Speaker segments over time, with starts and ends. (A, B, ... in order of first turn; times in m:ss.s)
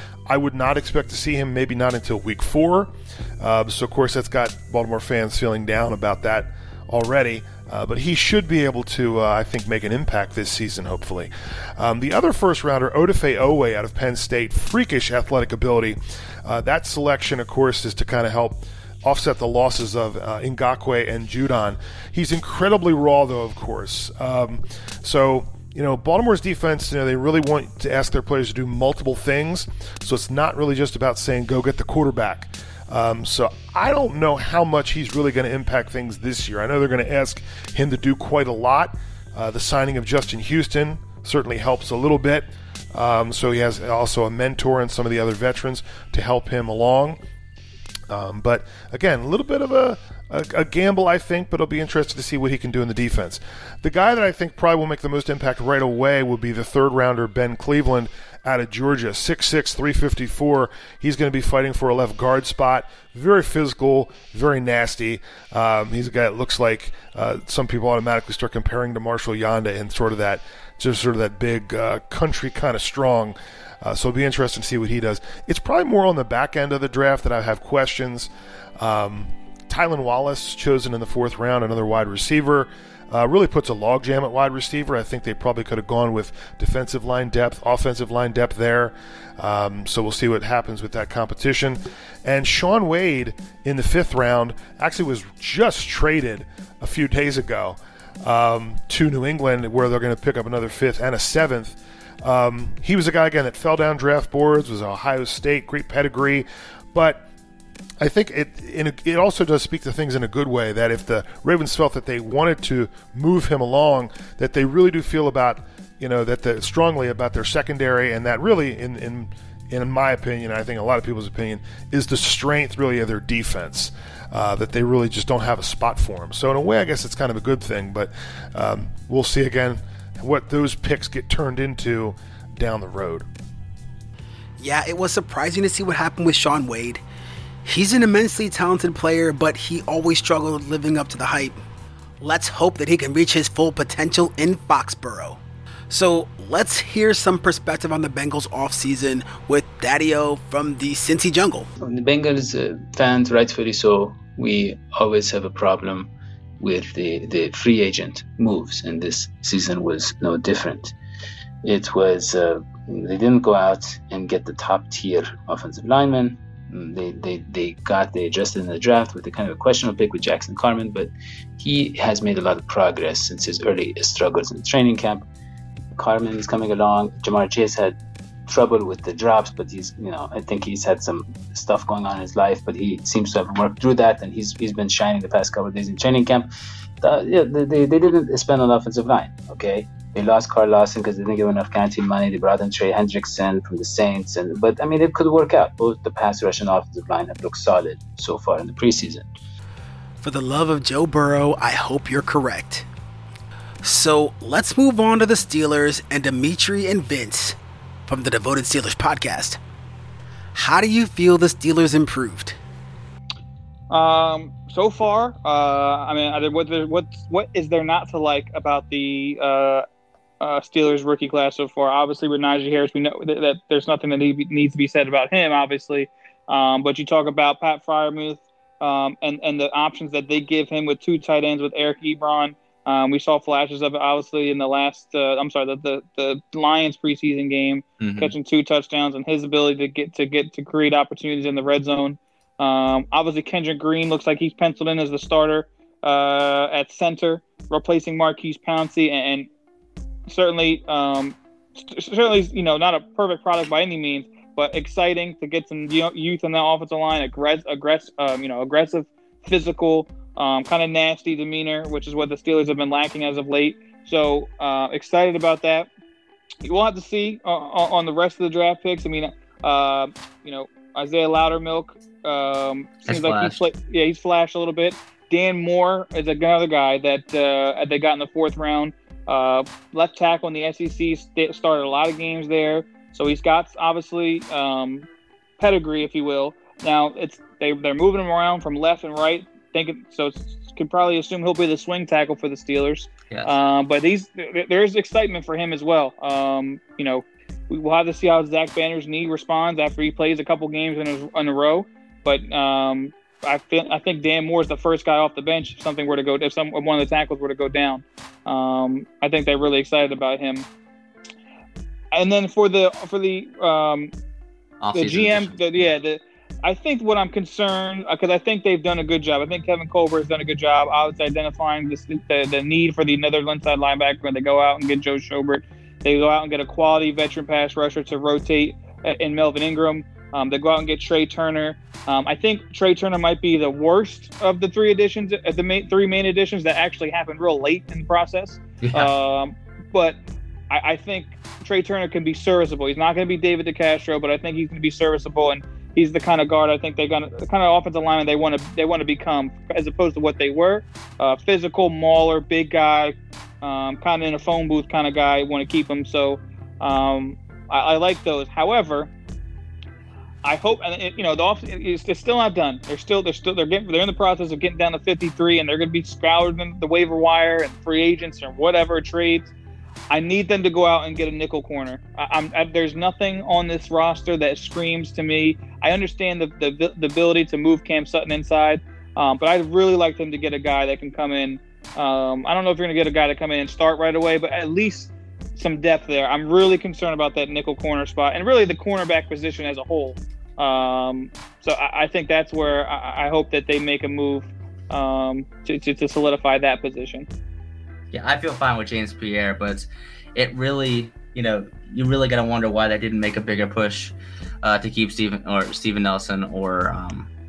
0:00.3-0:47.2 A
0:48.1-1:47.3 A
1:48.0-2:13.3 A
2:14.6-2:17.0 B
2:17.6-2:21.6 B
2:22.2-2:25.4 B
2:25.9-2:31.7 B
2:31.8-2:40.9 C
2:41.6-2:55.2 C
2:56.0-2:58.0 C
2:58.5-3:06.5 C
3:07.0-3:19.2 C
3:20.2-3:22.9 B
3:23.8-3:29.6 B
3:30.6-3:32.6 B
3:33.9-3:39.8 D
3:40.4-4:09.5 D
3:58.0-3:58.3 E
4:10.3-4:25.9 D
4:26.6-4:45.1 D
4:33.1-4:33.6 E
4:45.6-5:10.7 D
4:53.3-4:53.6 E
5:12.1-5:14.1 D
5:14.8-5:15.8 E
5:14.9-5:40.2 D
5:38.8-5:39.1 E
5:40.7-5:59.1 D
6:00.4-6:09.5 D
6:10.1-6:37.3 D
6:38.1-6:47.3 E